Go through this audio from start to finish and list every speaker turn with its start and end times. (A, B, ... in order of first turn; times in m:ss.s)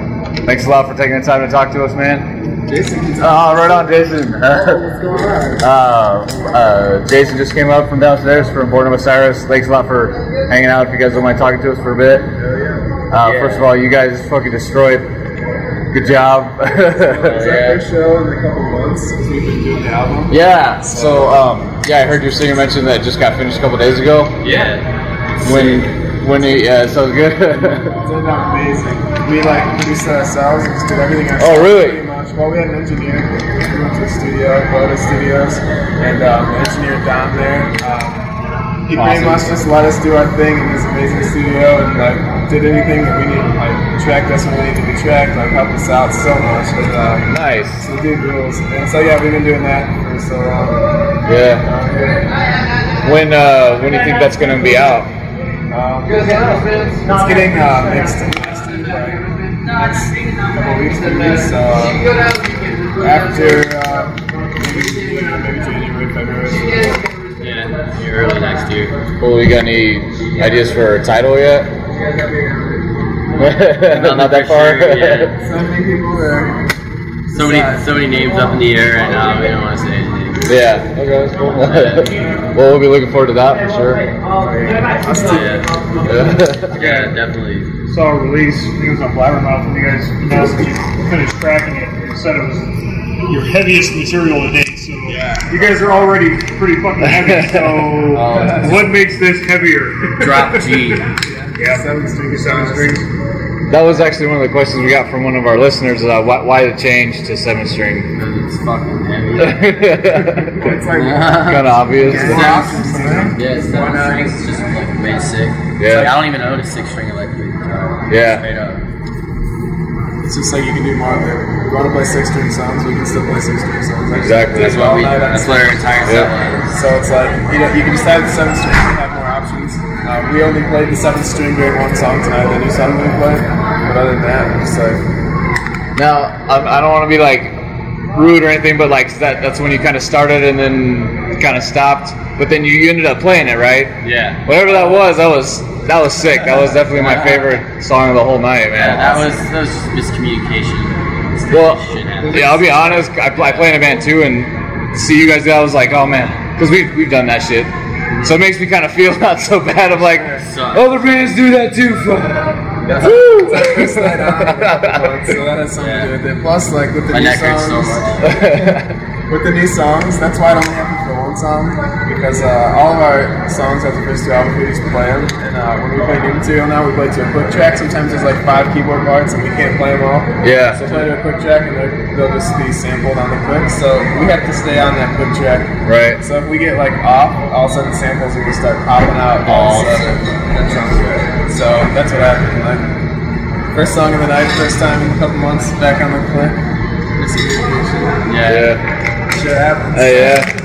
0:00.4-0:02.3 A
0:02.7-0:03.8 B
0:03.2-0:05.0 A
0:05.1-0:05.5 B
0:05.6-0:12.3 A
0:12.4-0:12.9 B
0:13.1-0:15.1 A
0:13.2-0:13.7 C
0:15.9-0:17.8 A
0:17.0-0:21.4 B
0:20.3-0:24.4 A
0:24.4-0:25.8 C
0:25.4-0:27.9 A
0:27.5-0:38.2 B
0:31.4-0:32.0 A
0:38.8-0:50.8 B
0:38.9-0:39.5 A
0:47.3-0:47.8 A
0:51.2-0:51.6 A
0:51.6-0:52.3 B
0:53.0-0:55.1 A
0:55.7-1:02.0 B
1:03.0-1:07.1 B
1:07.4-1:09.0 C
1:09.2-1:11.7 A
1:13.4-1:15.4 C
1:13.4-1:15.3 A
1:15.4-1:16.6 B
1:17.3-1:18.0 B
1:17.3-1:20.6 C
1:20.5-1:24.1 A
1:21.6-1:22.2 C
1:24.4-1:26.0 B
1:25.2-1:25.8 C
1:26.0-1:26.8 A
1:26.7-1:27.7 C
1:26.8-1:27.1 D
1:27.9-1:32.7 D
1:33.2-1:41.0 D
1:35.1-1:36.0 B
1:37.2-1:37.8 A
1:38.1-1:38.9 C
1:40.2-1:41.0 C
1:41.2-1:43.0 B
1:41.6-1:43.1 D
1:43.7-1:48.1 A
1:48.1-1:49.7 C
1:49.4-1:50.8 A
1:50.5-1:54.3 B
1:50.9-1:51.9 C
1:51.4-1:52.6 A
1:52.0-1:53.4 D
1:53.3-1:58.8 C
1:55.8-1:56.2 A
1:58.1-1:58.4 A
2:00.2-2:06.2 B
2:04.1-2:04.8 A
2:04.5-2:06.8 C
2:06.0-2:06.3 A
2:06.7-2:15.0 B
2:16.0-2:17.5 A
2:18.1-2:29.4 A
2:24.0-2:24.4 C
2:26.9-2:27.6 C
2:28.7-2:33.8 C
2:31.5-2:37.7 A
2:38.1-2:38.4 C
2:38.2-2:45.2 A
2:39.9-2:41.4 C
2:40.2-2:40.4 B
2:42.8-2:43.3 C
2:43.0-3:12.9 B
2:45.7-2:46.1 C
2:47.0-2:48.4 C
2:48.2-2:48.9 A
3:00.4-3:01.0 A
3:05.8-3:06.2 A
3:09.4-3:10.2 C
3:13.7-3:16.6 B
3:17.2-3:18.1 B
3:18.2-3:18.8 C
3:18.4-3:18.8 A
3:19.3-3:20.5 B
3:19.9-3:20.5 A